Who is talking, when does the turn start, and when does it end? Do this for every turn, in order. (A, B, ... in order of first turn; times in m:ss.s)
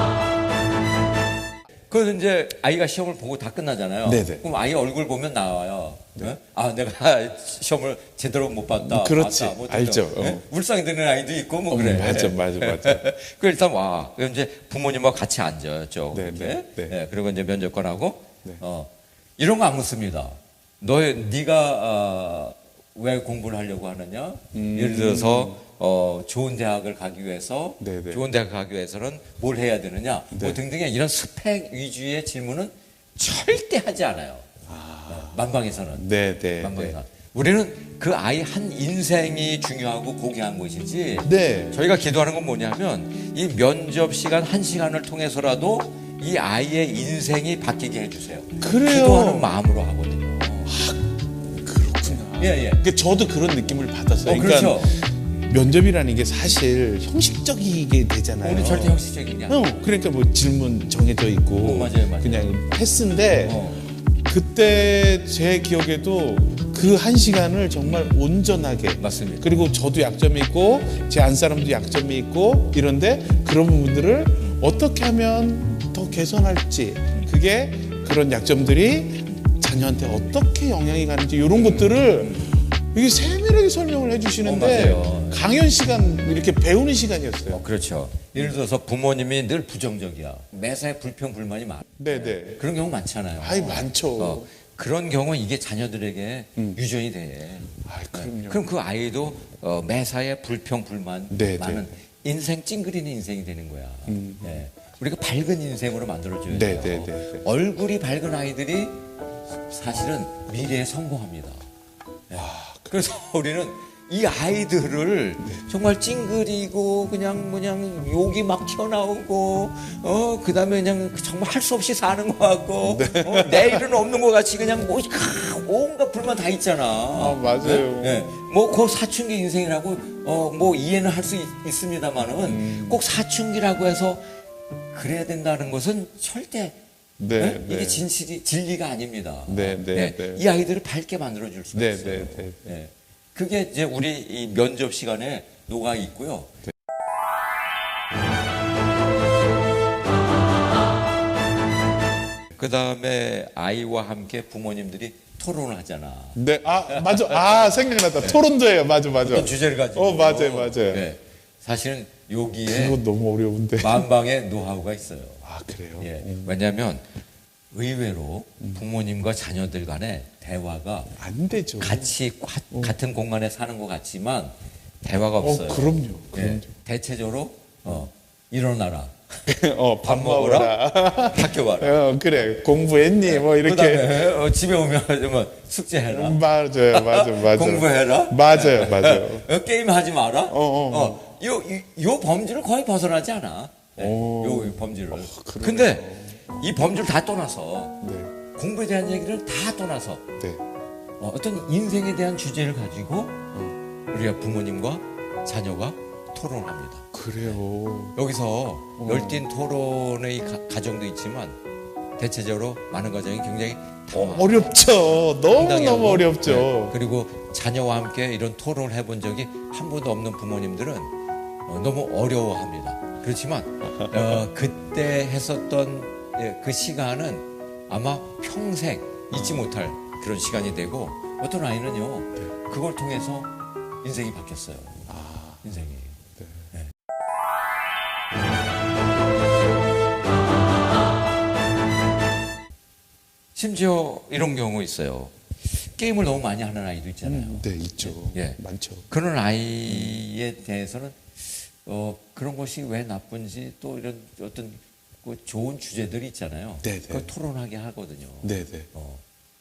0:01.9-0:34.5 A
0:04.1-0:04.4 B
0:08.8-0:10.4 B
0:11.7-0:13.0 B
0:16.1-0:17.0 B
0:24.5-0:25.6 B
0:27.8-0:28.2 B
0:30.3-0:30.6 B
0:34.7-0:35.4 B
0:35.1-0:36.0 A
0:36.0-0:37.0 B
0:36.6-0:50.8 A
0:41.2-0:41.8 B
0:48.6-0:49.5 B
0:50.7-1:27.6 B
0:52.4-0:52.8 A
0:54.2-0:55.0 A
0:58.4-0:59.9 A
1:01.6-1:02.5 A
1:03.4-1:03.9 A
1:09.0-1:09.6 A
1:21.6-1:22.5 A
1:24.4-1:25.5 A
1:27.5-1:49.0 A
1:32.0-1:32.7 B
1:33.4-1:34.5 B
1:37.8-1:38.7 B
1:41.3-1:41.9 B
1:44.1-1:44.6 B
1:46.5-1:47.5 B
1:49.7-1:51.6 A
1:52.3-2:14.2 A
1:52.3-1:53.1 B
2:02.8-2:03.9 B
2:07.1-2:08.2 B
2:12.4-2:13.0 B
2:14.9-2:16.8 A
2:17.2-2:18.1 B
2:17.4-2:26.5 A
2:19.5-2:20.4 B
2:21.7-2:22.7 B
2:32.6-2:38.4 A
2:36.4-2:41.1 B
2:39.2-2:43.0 A
2:42.7-2:44.1 B
2:43.8-2:45.4 A
2:45.4-2:46.6 B
2:46.0-2:47.0 A
2:47.7-2:51.2 A
2:51.2-2:52.1 B
2:51.8-2:59.2 A
2:55.4-2:56.7 B
2:59.5-3:04.3 B
3:00.0-3:00.7 A
3:01.3-3:02.0 A
3:03.2-3:06.4 A
3:06.1-3:09.5 B
3:06.9-3:18.0 A
3:10.5-3:11.2 B
3:14.0-3:16.4 B
3:18.0-3:18.3 B
3:18.5-3:20.2 A
3:21.2-3:23.4 A
3:24.1-3:27.6 A
3:27.1-3:28.2 B
3:28.2-3:31.6 A
3:29.0-3:29.4 B
3:32.2-3:41.1 A
3:34.1-3:37.0 B
3:41.7-3:53.5 A
3:49.4-3:49.6 B
3:54.0-3:55.1 A
3:55.1-3:55.8 B
3:55.6-3:56.2 A
3:56.4-3:56.7 B
4:03.6-4:19.2 A
4:07.2-4:09.1 B
4:09.9-4:10.2 B
4:16.8-4:17.3 B
4:18.4-4:18.9 B